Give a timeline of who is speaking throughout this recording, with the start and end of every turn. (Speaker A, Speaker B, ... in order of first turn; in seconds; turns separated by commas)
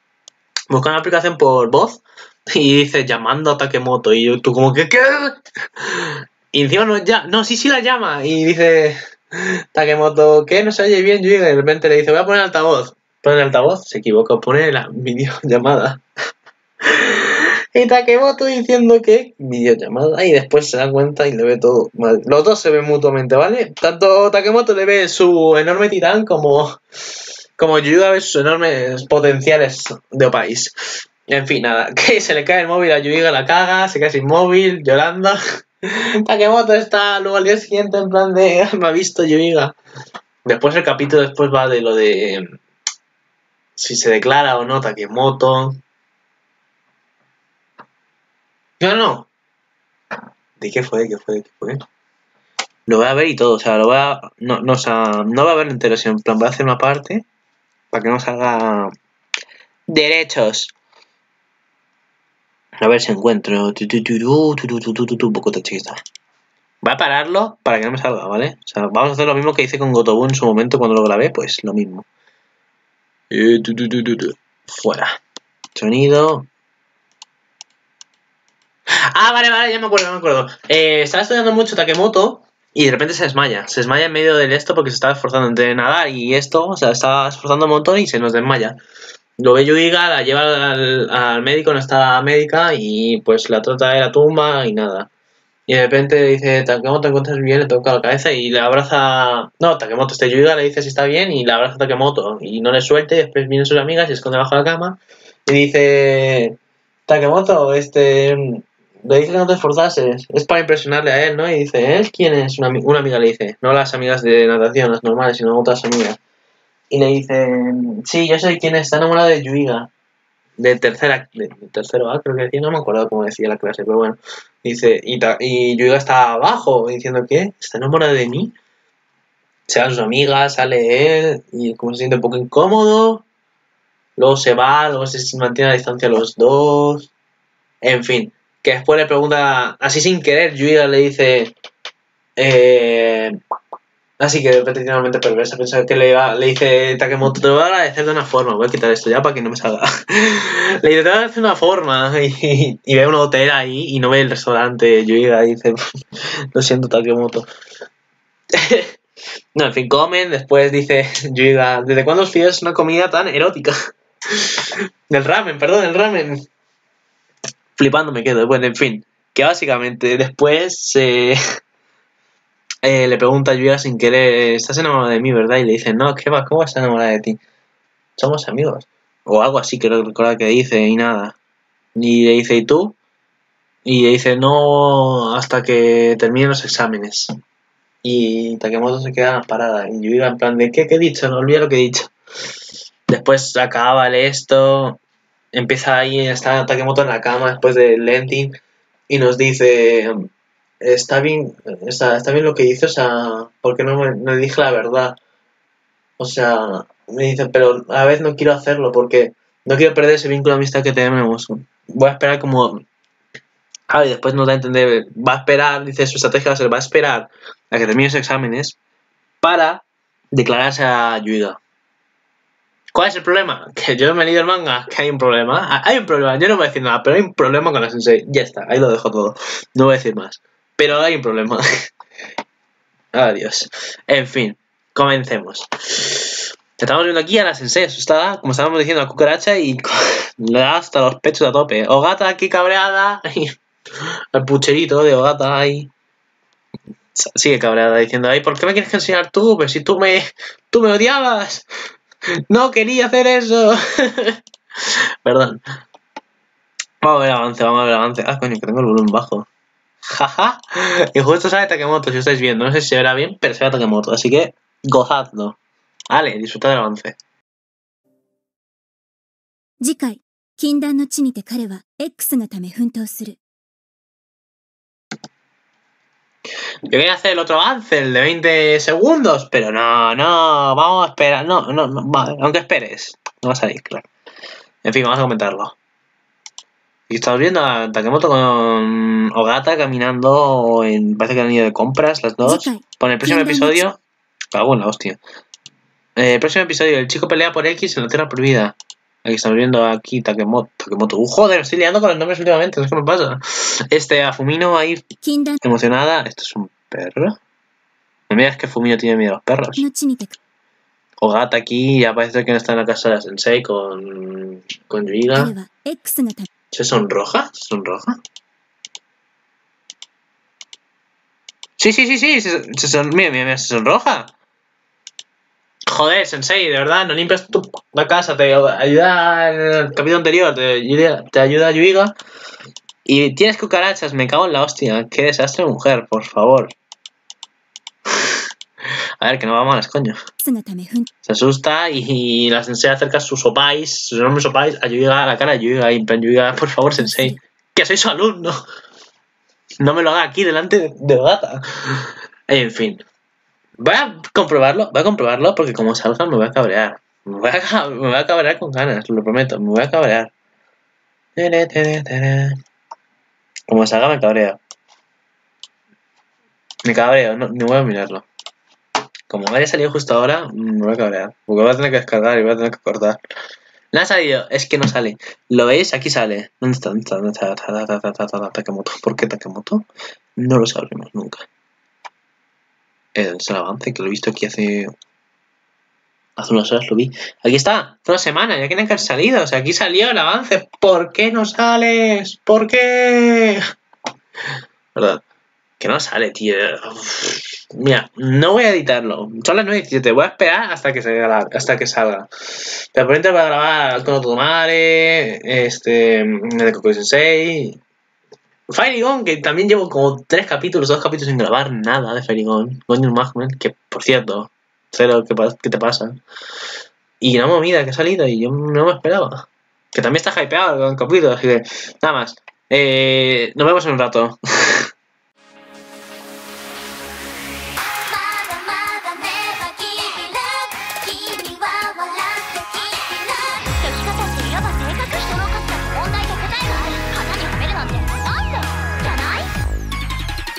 Speaker A: 0.7-16.0, Speaker A: 16.9-26.8, Speaker A: 27.6-30.7, Speaker A: 31.2-35.4, Speaker A: 36.2-39.7, Speaker A: 40.4-42.6, Speaker A: 43.8-45.8, Speaker A: 48.8-49.3, Speaker A: 50.6-51.8, Speaker A: 52.9-57.2, Speaker A: 57.9-58.9, Speaker A: 59.9-60.7, Speaker A: 62.8-66.0, Speaker A: 66.8-72.1, Speaker A: 73.3-75.1, Speaker A: 75.7-76.5, Speaker A: 79.1-88.8, Speaker A: 89.4-95.1, Speaker A: 95.7-116.2, Speaker A: 116.9-119.9, Speaker A: 120.6-128.5, Speaker A: 129.7-133.2, Speaker A: 134.2-137.1, Speaker A: 137.8-141.5, Speaker A: 142.4-143.4, Speaker A: 144.2-155.8, Speaker A: 156.5-157.4, Speaker A: 158.5-159.0, Speaker A: 159.5-163.7, Speaker A: 164.3-166.4, Speaker A: 167.8-171.4, Speaker A: 172.8-177.4, Speaker A: 178.2-181.3, Speaker A: 181.9-183.0, Speaker A: 183.8-187.3, Speaker A: 188.0-192.1, Speaker A: 193.1-195.0, Speaker A: 195.5-198.5, Speaker A: 199.1-200.3, Speaker A: 200.8-205.2, Speaker A: 206.2-212.8, Speaker A: 213.9-218.8, Speaker A: 219.4-221.6, Speaker A: 222.9-231.6, Speaker A: 233.1-243.5, Speaker A: 244.3-245.9, Speaker A: 247.1-251.7, Speaker A: 252.5-254.4, Speaker A: 255.2-255.6, Speaker A: 257.0-259.5, Speaker A: 260.1-265.6, Speaker A: 266.1-267.2, Speaker B: 269.8-273.4, Speaker A: 276.9-284.1, Speaker A: 284.8-285.8, Speaker A: 287.1-294.0, Speaker B: 292.4-293.8, Speaker A: 294.5-295.2, Speaker A: 296.1-305.1, Speaker B: 305.2-305.6, Speaker A: 305.6-307.4, Speaker A: 308.3-309.8, Speaker B: 309.8-310.4, Speaker A: 311.2-315.5, Speaker B: 315.3-316.5, Speaker A: 316.7-318.2, Speaker A: 321.8-324.3, Speaker A: 325.9-332.1, Speaker A: 333.0-336.7, Speaker A: 339.2-340.2, Speaker B: 340.4-341.1, Speaker A: 341.2-348.6, Speaker B: 347.0-347.4, Speaker A: 349.8-353.0, Speaker A: 353.8-360.3, Speaker A: 361.4-362.6, Speaker A: 363.7-364.6, Speaker A: 366.8-368.2, Speaker A: 369.3-373.2, Speaker A: 373.9-381.4, Speaker A: 383.1-384.9, Speaker A: 386.4-393.6, Speaker A: 394.9-395.2, Speaker A: 395.8-407.8, Speaker A: 408.7-416.2, Speaker A: 417.2-424.9, Speaker B: 428.1-439.5